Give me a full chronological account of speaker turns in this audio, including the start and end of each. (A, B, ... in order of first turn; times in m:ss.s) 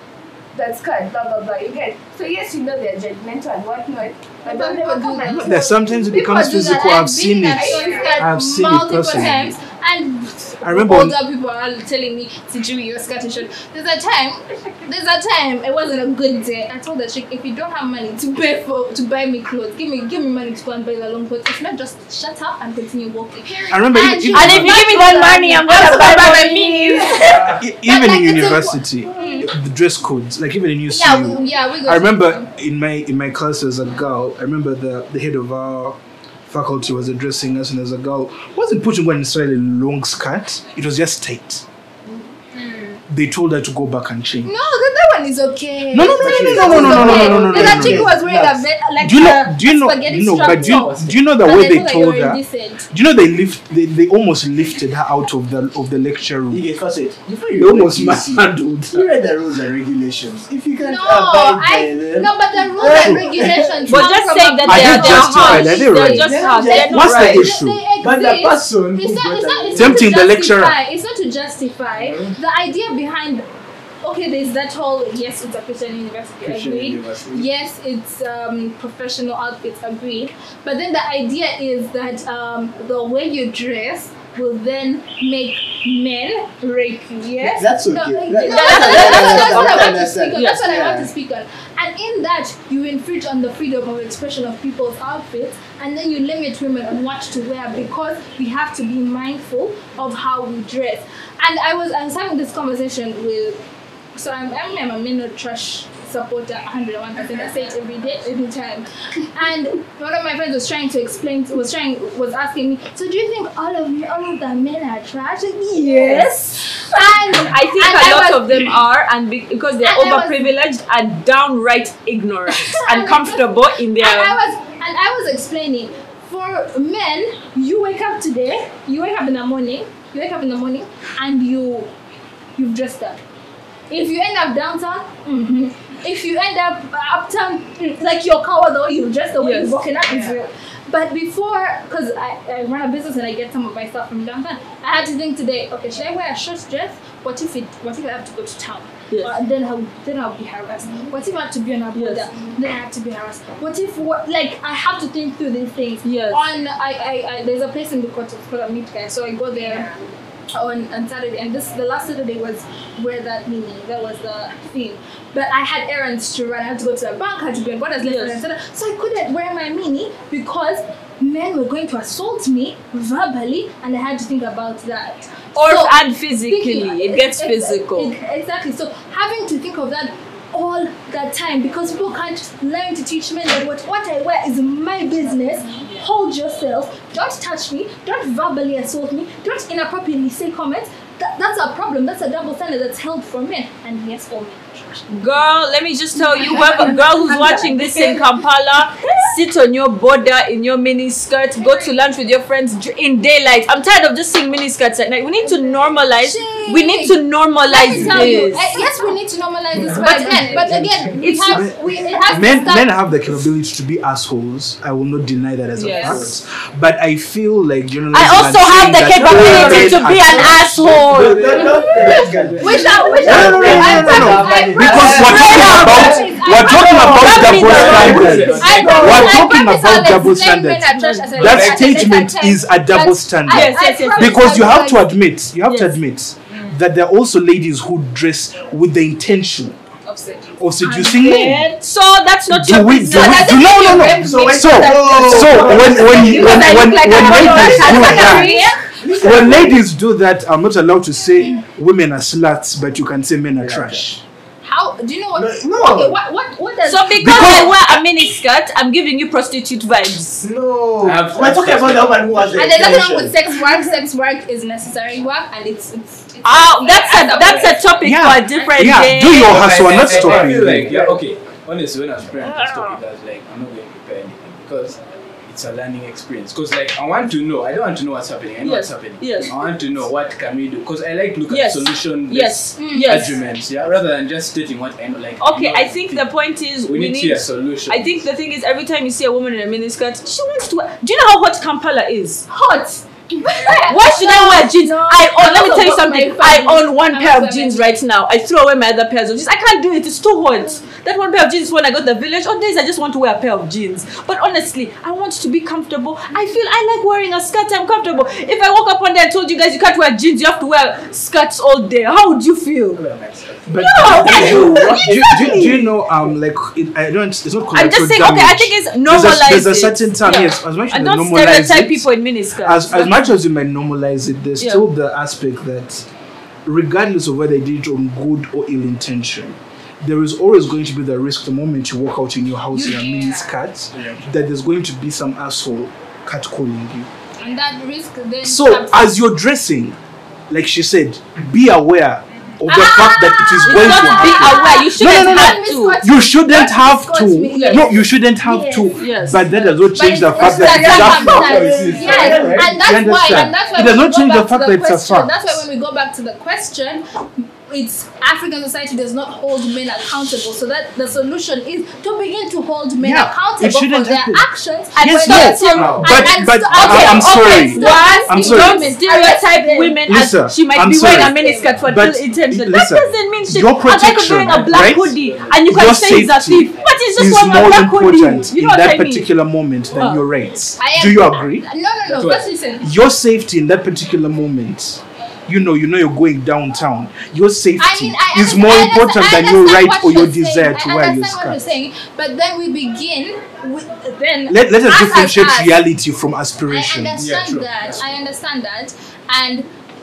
0:00.5-0:06.0 A
0:04.4-0:29.5 B
0:05.2-0:09.5 C
0:07.5-0:08.3 A
0:10.6-0:11.2 C
0:23.4-0:23.8 A
0:23.7-0:24.8 C
0:24.3-0:27.5 D
0:27.4-0:41.6 C
0:30.9-0:32.5 B
0:42.1-0:43.0 A
0:43.1-0:44.6 C
0:44.4-0:52.8 B
0:45.9-0:48.1 C
0:46.0-0:48.7 E
0:49.0-0:56.6 C
0:50.5-0:51.2 F
0:56.5-1:04.1 E
0:57.6-0:59.1 C
1:00.8-1:13.4 B
1:03.9-1:07.4 D
1:04.6-1:07.8 C
1:06.2-1:10.2 E
1:09.7-1:10.8 C
1:12.0-1:12.3 F
1:14.0-1:43.6 B
1:16.4-1:17.5 F
1:27.4-1:31.1 E
1:28.4-1:30.6 D
1:44.1-1:58.8 B
1:47.2-1:47.5 A
1:55.7-1:56.3 D
1:57.3-2:04.4 D
1:59.8-2:00.5 B
2:02.5-2:11.9 B
2:12.6-2:13.2 B
2:13.9-2:39.9 B
2:19.4-2:19.8 D
2:20.0-2:20.4 A
2:29.1-2:29.4 D
2:31.9-2:32.3 D
2:36.0-2:36.5 D
2:39.6-2:40.0 A
2:40.5-3:15.1 B
2:48.0-2:48.4 D
2:55.6-2:58.1 D
3:15.1-3:28.8 D
3:16.1-3:18.4 B
3:19.0-3:19.3 B
3:21.6-3:21.9 A
3:25.4-3:25.9 A
3:26.2-3:32.9 B
3:29.8-3:31.2 E
3:30.0-3:31.6 D
3:31.5-3:41.1 C
3:35.8-3:36.2 D
3:36.0-3:36.3 E
3:38.1-3:41.6 D
3:39.2-3:49.2 E
3:41.0-3:46.2 F
3:41.4-3:55.1 B
3:43.2-3:59.8 C
3:44.9-3:46.0 D
3:46.6-3:48.6 D
3:47.4-3:49.5 F
3:50.9-3:51.4 D
3:51.3-3:52.0 F
3:53.5-3:54.5 D
3:55.6-3:56.0 D
4:00.0-4:01.8 B
4:00.6-4:01.7 C
4:01.3-4:03.8 D
4:02.5-4:08.6 C
4:03.0-4:09.5 B
4:03.8-4:09.8 E
4:07.2-4:08.5 D
4:09.2-4:14.2 C
4:13.6-4:14.0 E
4:14.6-4:17.7 B
4:15.3-4:16.2 E
4:16.8-4:20.5 D
4:17.2-4:17.8 C
4:20.4-4:23.4 E
4:21.0-4:22.6 F
4:22.5-4:29.0 B
4:26.4-4:29.6 D
4:28.0-4:30.9 C
4:29.3-4:46.3 F
4:29.9-4:31.2 E
4:32.4-4:32.9 B
4:38.6-4:39.5 D
4:41.5-4:43.4 D
4:42.8-4:43.3 B
4:45.4-4:52.4 D
4:46.8-4:48.2 F
4:52.5-4:58.0 B
4:53.3-4:54.1 A
4:53.7-5:13.0 D
5:12.9-5:14.8 F
5:13.6-5:22.1 C
5:13.8-5:15.4 D
5:14.1-5:15.9 E
5:17.7-5:23.3 D
5:22.6-5:26.1 C
5:26.6-5:37.1 C
5:32.7-5:33.5 B
5:33.9-5:34.3 F
5:37.4-5:39.1 B
5:38.4-5:40.0 C
5:40.5-5:51.6 C
5:42.7-5:49.0 B
5:43.6-5:46.0 D
5:47.5-5:47.8 D
5:49.0-5:51.0 D
5:49.9-6:10.0 B
5:50.5-5:52.8 F
5:51.0-5:52.8 E
5:52.6-5:55.6 C
6:03.0-6:09.0 C
6:05.2-6:19.3 D
6:05.8-6:06.1 F
6:06.7-6:07.0 F
6:10.1-6:21.6 C
6:11.1-6:11.8 B
6:14.4-6:15.8 F
6:19.9-6:20.2 D
6:20.8-6:22.9 B
6:22.1-6:22.5 F
6:22.8-6:31.6 C
6:27.8-6:35.8 B
6:34.5-6:37.3 C
6:36.7-6:39.7 B
6:37.2-6:38.1 F